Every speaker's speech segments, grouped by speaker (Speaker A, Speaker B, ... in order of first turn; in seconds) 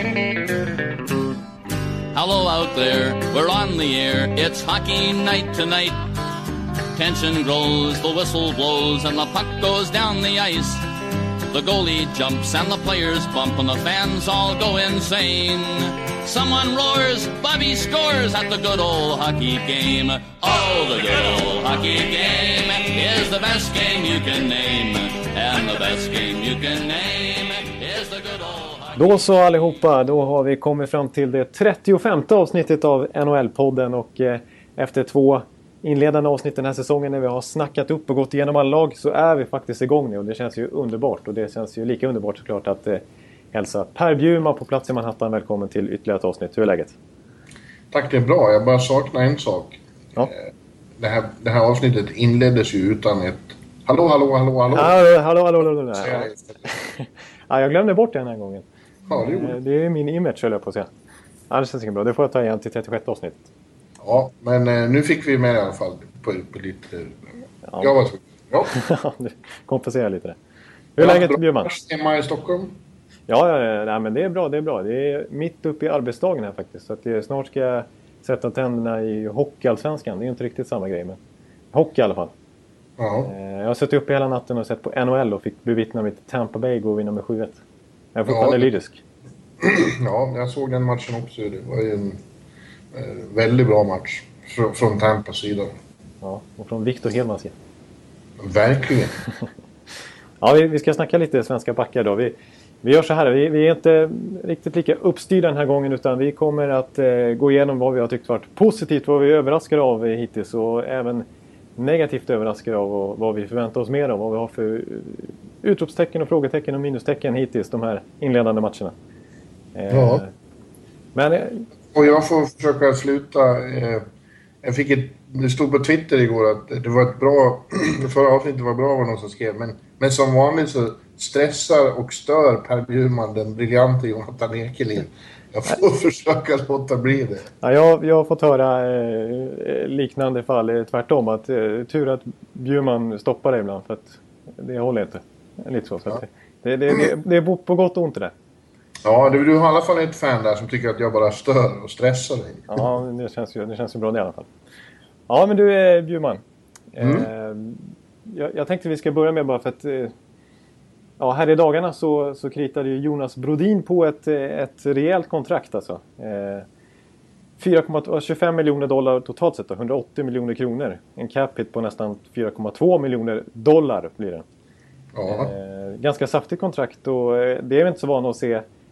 Speaker A: 2.1-6.0, 6.9-10.9, 11.5-29.0
Speaker B: 29.0-43.0, 43.5-47.0, 54.7-58.6, 59.2-60.9, 61.5-63.5, 67.7-67.9, 68.7-70.4, 71.0-71.7, 73.3-81.2, 81.7-82.3, 83.3-87.6, 88.2-89.0, 96.2-97.5, 100.4-111.2, 111.8-118.9, 119.8-120.3, 121.2-121.7, 137.6-148.3, 152.7-154.5, 155.3-156.4, 156.9-160.1, 161.2-166.7, 167.6-174.4, 175.3-178.7
Speaker C: 47.9-54.9, 56.0-56.5, 59.1-59.6, 64.0-67.2, 67.8-68.7, 71.0-72.8, 83.0-83.3, 88.3-88.7, 89.6-92.2, 92.9-95.7, 98.4-99.2, 119.9-120.2, 121.9-124.0, 124.6-137.5, 149.1-152.9, 157.0-157.3, 175.1-175.5